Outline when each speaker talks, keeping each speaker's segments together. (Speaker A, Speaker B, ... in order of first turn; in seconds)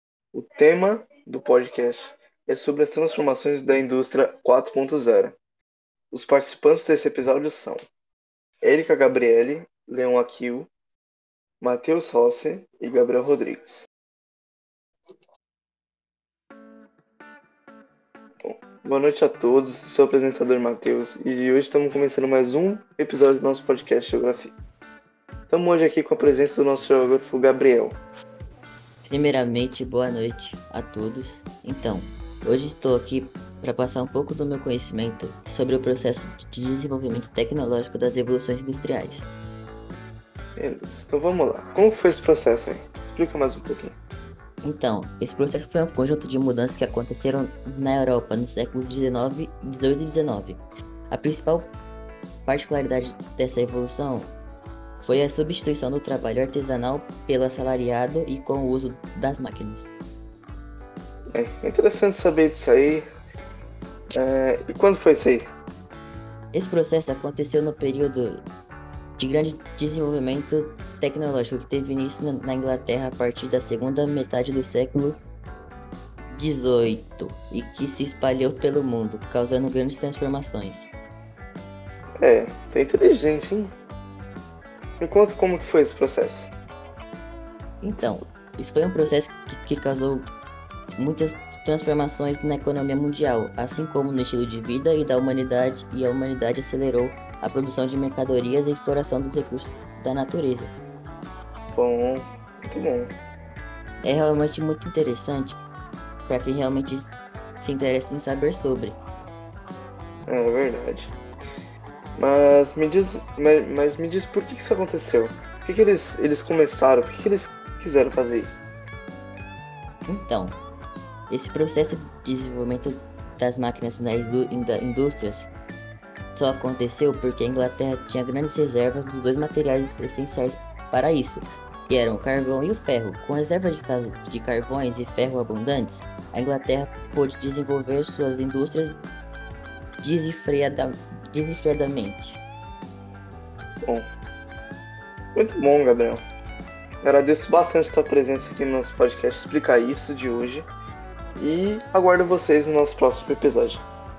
Speaker A: 0.3-5.4, 6.1-7.8, 8.6-10.7, 11.6-13.9, 18.4-24.5, 25.5-28.0, 40.6-44.0, 61.3-63.1, 64.2-65.5, 82.2-83.7, 85.0-86.5, 101.7-103.1, 110.3-111.2, 112.2-118.6, 145.3-146.2, 147.0-150.7, 151.4-153.8
Speaker B: 29.0-39.3, 44.6-51.7, 52.5-54.3, 55.0-59.9, 66.5-68.5, 69.2-75.2, 76.3-80.9, 87.8-90.3, 91.0-100.7, 104.0-105.6, 106.3-109.0, 120.1-120.6, 121.3-125.5, 126.3-139.0, 140.0-142.4